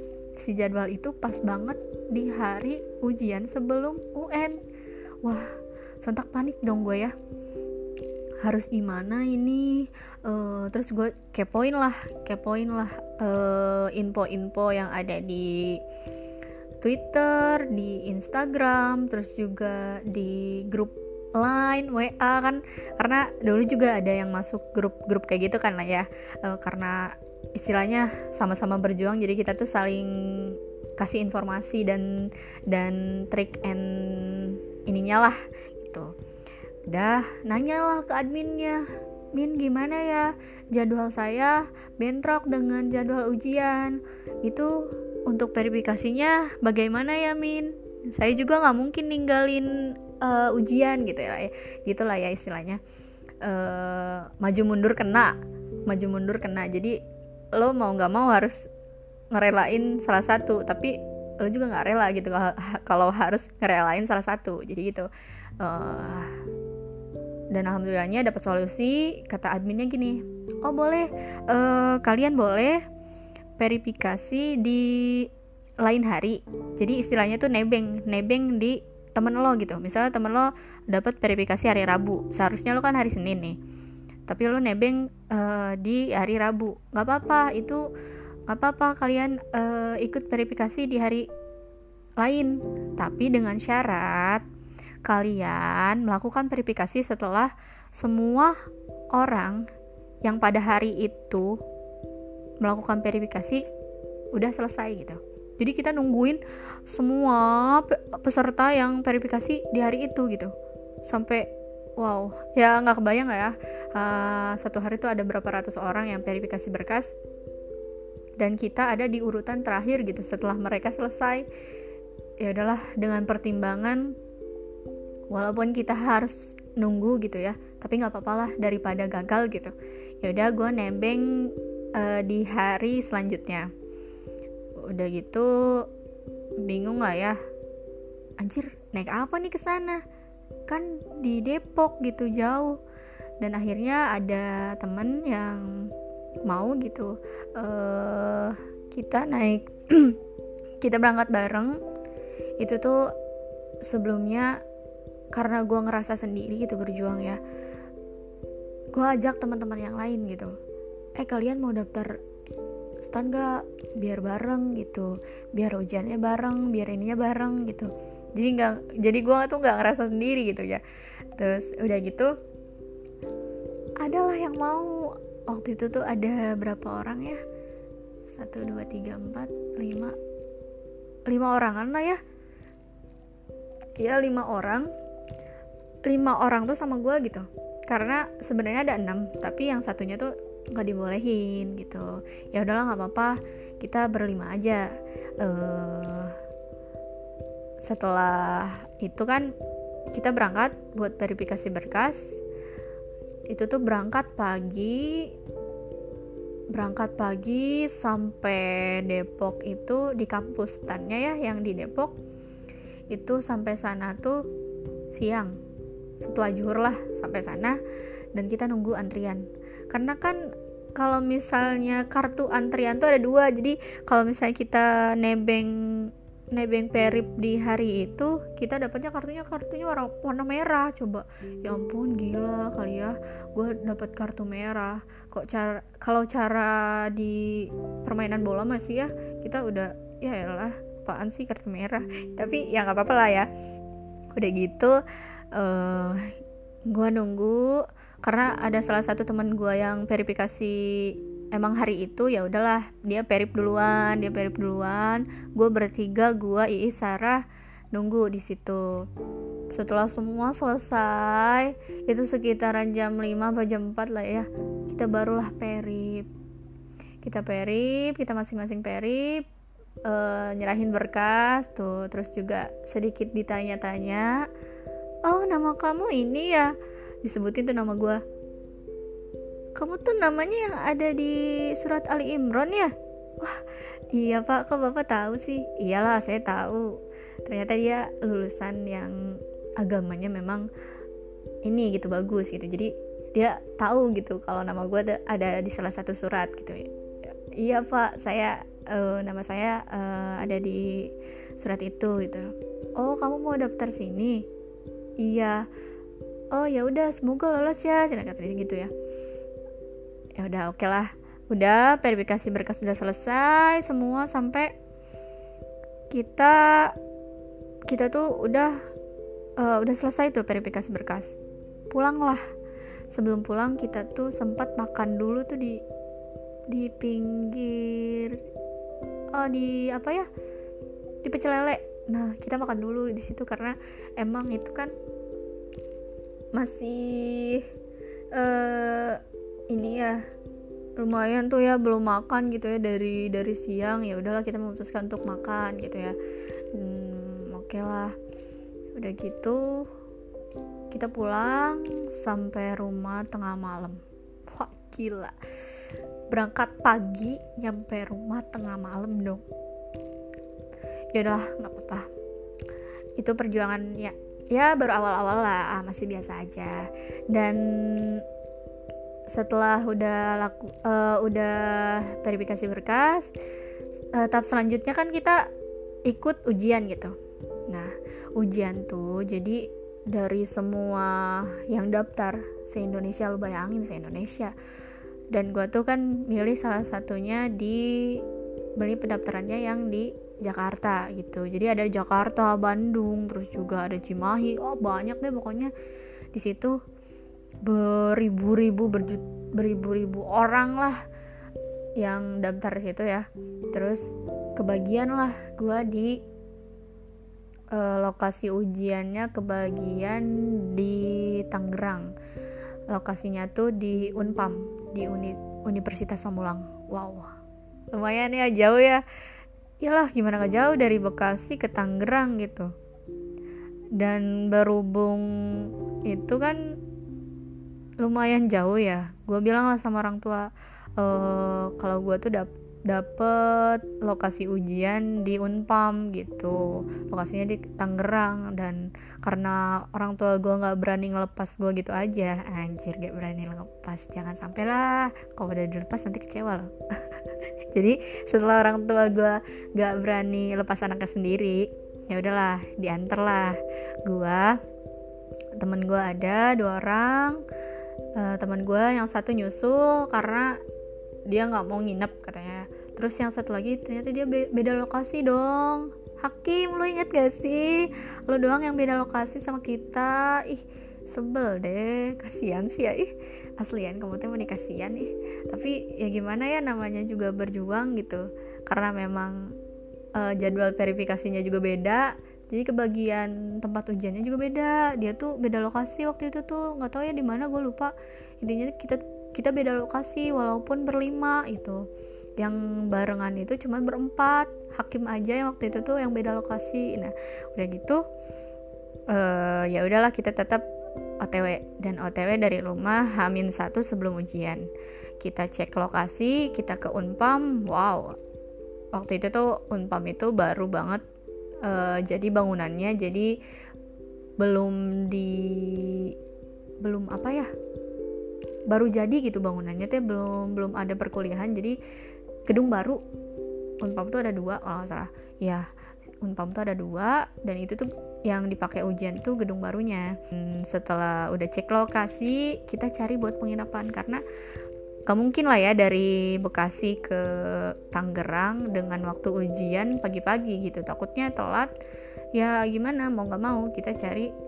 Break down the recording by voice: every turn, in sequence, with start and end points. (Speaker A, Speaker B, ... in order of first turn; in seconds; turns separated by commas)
Speaker A: 0.4-4.6, Speaker A: 5.2-7.2, Speaker A: 8.4-15.8, Speaker A: 16.8-36.1, Speaker A: 36.9-44.8, Speaker A: 45.3-52.8, Speaker A: 53.4-55.3, Speaker A: 55.9-57.0, Speaker A: 57.6-58.6, Speaker A: 59.3-65.1, Speaker A: 65.6-66.3, Speaker A: 67.5-72.8, Speaker A: 73.6-75.3, Speaker A: 75.8-83.6, Speaker A: 84.3-87.8, Speaker A: 88.5-91.3, Speaker A: 92.2-94.4, Speaker A: 95.0-98.5, Speaker A: 99.1-99.7, Speaker A: 100.2-101.6, Speaker A: 102.6-103.6, Speaker A: 104.3-110.5, Speaker A: 111.1-117.2, Speaker A: 118.4-121.5, Speaker A: 122.4-124.1, Speaker A: 125.3-131.3, Speaker A: 131.9-133.7, Speaker A: 134.8-135.9, Speaker A: 136.6-137.4, Speaker A: 138.4-140.0, Speaker A: 140.7-142.8, Speaker A: 143.4-145.9, Speaker A: 146.5-150.2, Speaker A: 150.8-151.8, Speaker A: 152.6-153.1, Speaker A: 153.8-154.6, Speaker A: 155.3-157.4, Speaker A: 158.9-160.5, Speaker A: 161.2-162.2, Speaker A: 163.0-170.8, Speaker A: 171.3-172.3, Speaker A: 174.0-177.4, Speaker A: 178.3-180.2, Speaker A: 181.3-182.2, Speaker A: 184.0-184.9, Speaker A: 186.1-194.9, Speaker A: 195.4-196.3, Speaker A: 197.8-199.5, Speaker A: 200.1-202.4, Speaker A: 203.5-205.3, Speaker A: 206.7-212.2, Speaker A: 213.1-214.4, Speaker A: 215.1-215.6, Speaker A: 216.2-217.8, Speaker A: 218.3-243.5, Speaker A: 244.3-245.0, Speaker A: 245.5-246.3, Speaker A: 246.9-259.1, Speaker A: 259.7-266.3, Speaker A: 267.2-269.4, Speaker A: 270.1-274.4, Speaker A: 275.3-276.7, Speaker A: 277.2-278.2, Speaker A: 279.8-290.7, Speaker A: 291.6-296.9, Speaker A: 297.6-304.5, Speaker A: 305.2-305.7, Speaker A: 306.5-308.9, Speaker A: 310.4-314.7, Speaker A: 316.1-317.0, Speaker A: 317.9-318.8, Speaker A: 319.6-321.4, Speaker A: 321.9-322.4, Speaker A: 323.1-325.8, Speaker A: 326.7-328.4, Speaker A: 329.3-330.3, Speaker A: 331.2-334.9, Speaker A: 336.6-337.7, Speaker A: 338.4-340.2, Speaker A: 341.0-346.2, Speaker A: 346.7-348.1, Speaker A: 349.0-349.9, Speaker A: 350.9-355.4, Speaker A: 356.3-359.4, Speaker A: 361.1-362.1, Speaker A: 363.2-368.2, Speaker A: 369.3-373.3, Speaker A: 374.1-375.5, Speaker A: 376.1-377.1, Speaker A: 377.7-384.6, Speaker A: 385.3-388.2, Speaker A: 388.8-395.7, Speaker A: 396.3-396.8, Speaker A: 397.6-401.0, Speaker A: 402.0-406.2, Speaker A: 407.7-412.1, Speaker A: 412.9-417.3, Speaker A: 417.9-419.0, Speaker A: 419.8-422.7, Speaker A: 424.0-426.8, Speaker A: 428.0-447.2, Speaker A: 447.7-454.6, Speaker A: 455.6-457.4, Speaker A: 458.2-460.6, Speaker A: 461.3-479.5, Speaker A: 480.2-491.8, Speaker A: 492.4-498.0, Speaker A: 499.1-500.7, Speaker A: 501.2-504.6, Speaker A: 505.2-508.1, Speaker A: 508.9-511.0, Speaker A: 511.6-513.3, Speaker A: 514.4-516.1, Speaker A: 516.8-517.5, Speaker A: 518.7-521.8, Speaker A: 522.5-523.0, Speaker A: 523.8-525.7, Speaker A: 526.2-534.2, Speaker A: 535.1-541.7, Speaker A: 542.4-544.3